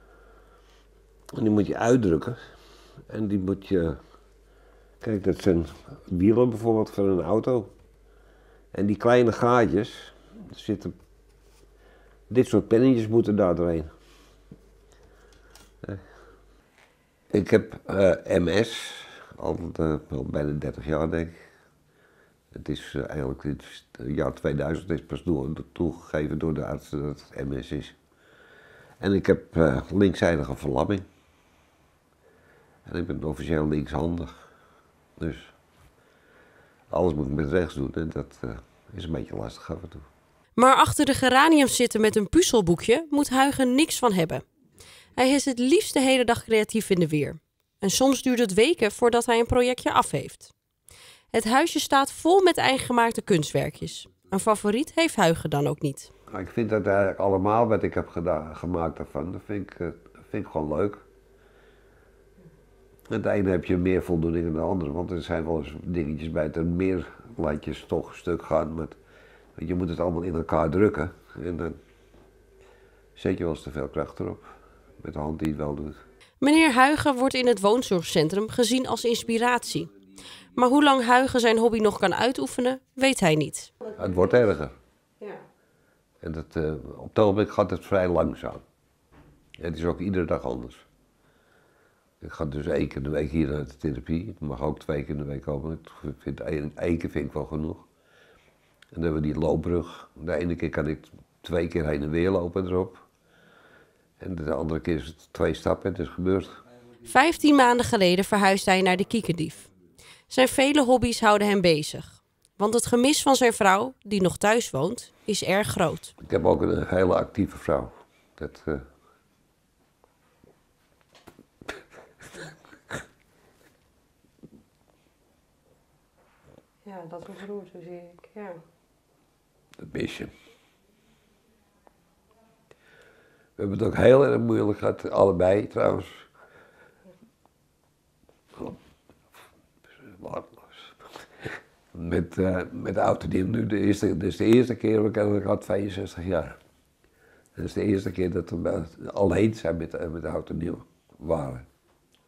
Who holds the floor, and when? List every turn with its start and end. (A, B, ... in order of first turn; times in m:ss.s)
0:01.3-0:02.4 A
0:03.1-0:04.0 A
0:05.0-0:07.7 A
0:08.7-0:10.9 A
0:12.3-0:13.9 A
0:17.3-0:21.4 A
0:22.5-0:28.0 A
0:29.0-0:31.1 A
0:32.8-0:34.4 A
0:35.2-0:35.5 A
0:36.9-0:40.1 A
0:40.6-0:44.4 B
0:45.2-0:50.5 B
0:51.3-0:56.1 B
0:56.3-1:01.0 A
1:03.1-1:09.0 A
1:09.6-1:11.8 A
1:13.2-1:16.0 A
1:16.4-1:19.9 B
1:20.5-1:23.8 B
1:23.9-1:24.7 A
1:26.2-1:28.6 A
1:29.6-1:30.8 A
1:32.2-1:37.9 A
1:38.9-1:43.0 A
1:44.2-1:46.6 A
1:47.0-1:49.7 B
1:50.3-1:56.1 B
1:56.2-1:58.8 A
2:06.8-2:08.6 B
2:09.8-2:10.3 A
2:13.6-2:16.3 A
2:20.0-2:26.6 A
2:27.6-2:31.7 A